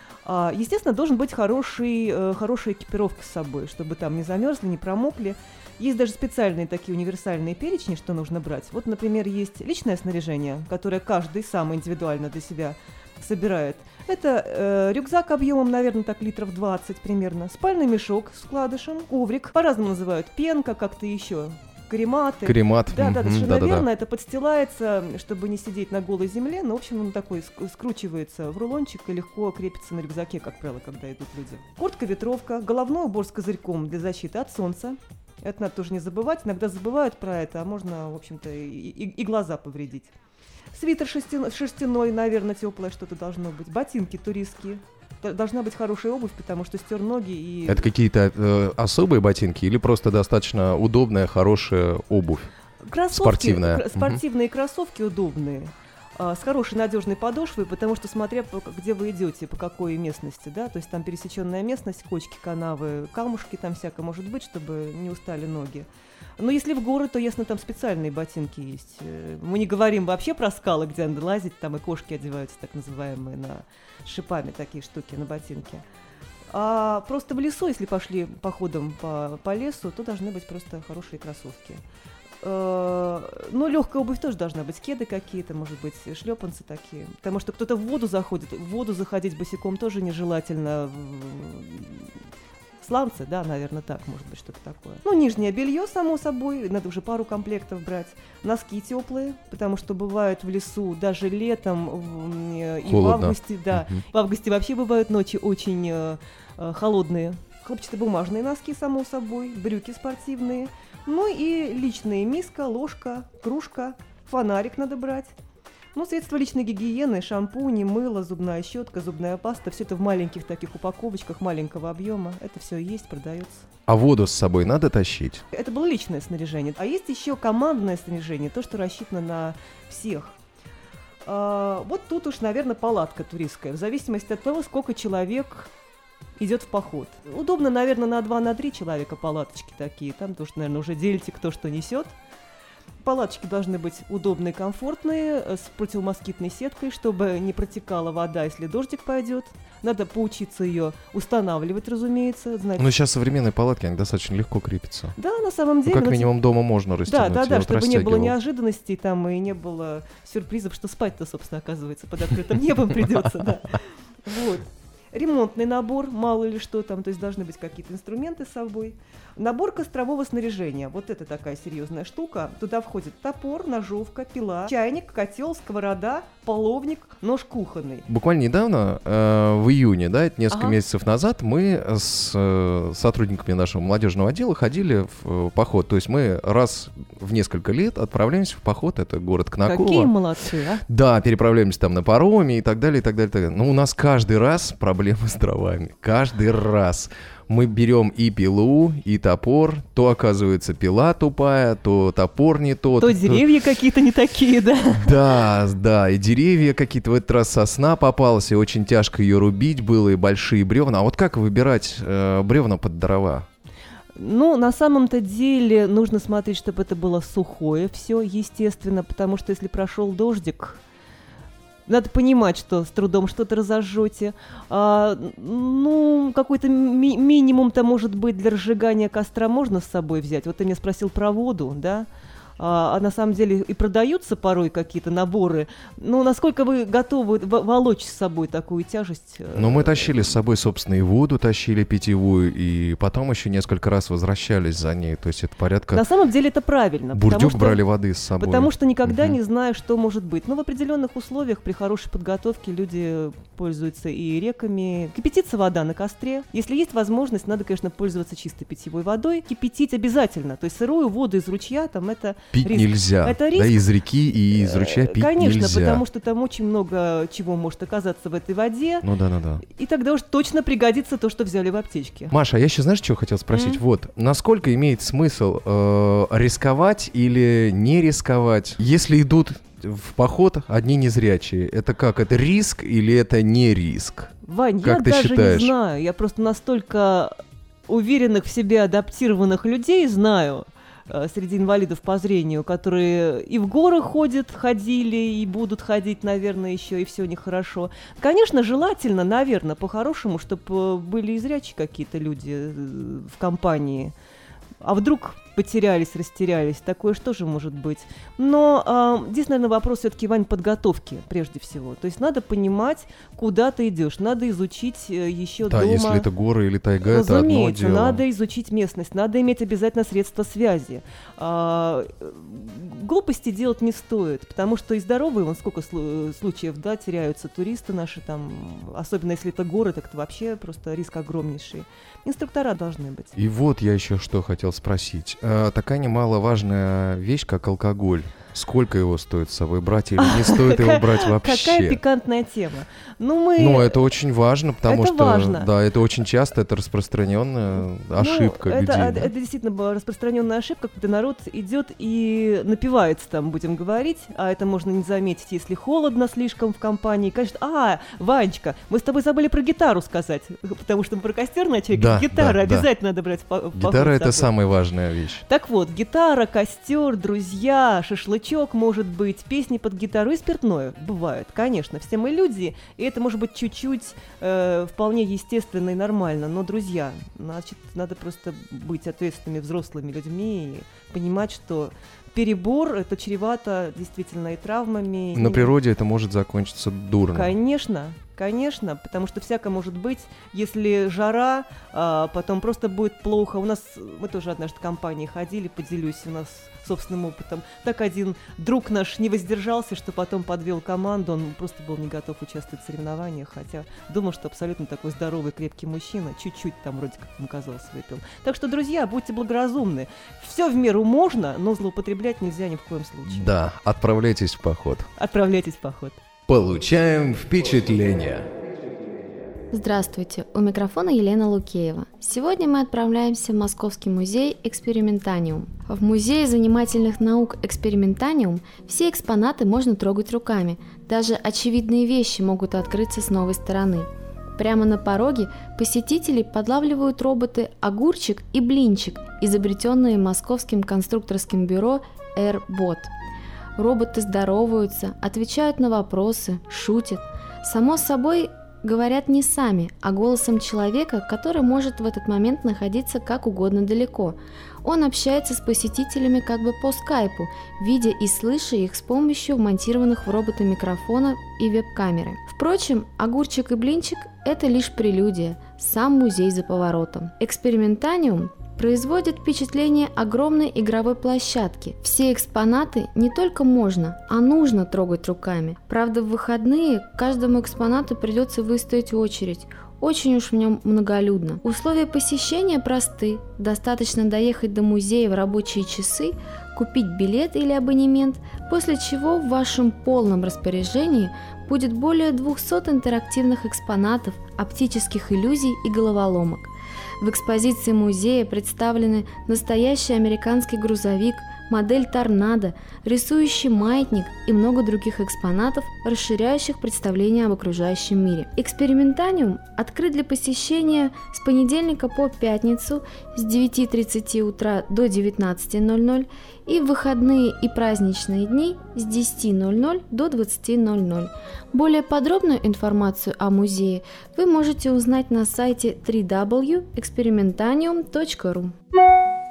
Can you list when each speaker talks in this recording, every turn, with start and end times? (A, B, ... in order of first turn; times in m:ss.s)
0:00.2-0:40.1 A
0:22.4-0:23.8 B
0:40.7-0:47.9 A
0:47.7-0:52.5 B
0:52.8-1:15.8 A
0:53.1-0:54.2 B
1:16.5-1:21.8 A
1:22.4-1:32.1 A
1:32.8-1:55.3 A
1:42.8-1:44.0 B
1:55.9-2:03.6 A
2:03.9-2:05.4 B
2:05.5-2:10.4 A
2:11.2-2:15.7 A
2:16.4-2:22.1 A
2:23.0-2:33.0 A
2:32.8-2:35.1 B
2:35.2-2:36.3 A
2:35.8-2:38.3 B
2:37.0-2:58.0 A
2:58.1-3:10.1 B
3:00.5-3:00.8 A
3:09.6-3:10.8 A
3:10.9-3:23.4 B
3:23.0-3:25.2 A
3:25.0-3:33.4 B
3:34.2-3:40.8 A
3:41.9-3:52.1 A
3:52.6-4:00.3 A
3:59.5-4:06.0 B
4:05.9-4:07.8 A
4:07.1-4:09.4 B
4:08.4-4:23.9 A
4:22.5-4:26.0 B
4:24.5-4:29.0 A
4:29.0-4:29.6 B
4:29.6-4:32.3 A
4:32.3-4:45.7 B
4:33.5-4:33.8 A
4:44.4-4:47.3 A
4:47.9-5:04.1 A
5:04.8-5:16.3 A
5:15.6-5:18.2 B
5:17.0-5:33.4 A
5:33.4-5:42.0 B
5:40.2-5:44.1 A
5:43.6-5:49.3 B
5:44.8-5:45.7 A
5:48.2-6:04.5 A
6:01.9-6:02.9 B
6:03.7-6:05.4 B
6:05.5-6:25.8 A
6:25.3-6:27.5 B
6:27.3-6:53.5 A
6:53.3-6:55.1 B
6:55.2-6:56.2 A
6:56.5-6:58.5 B
6:59.7-7:23.1 C
7:23.8-8:48.7 C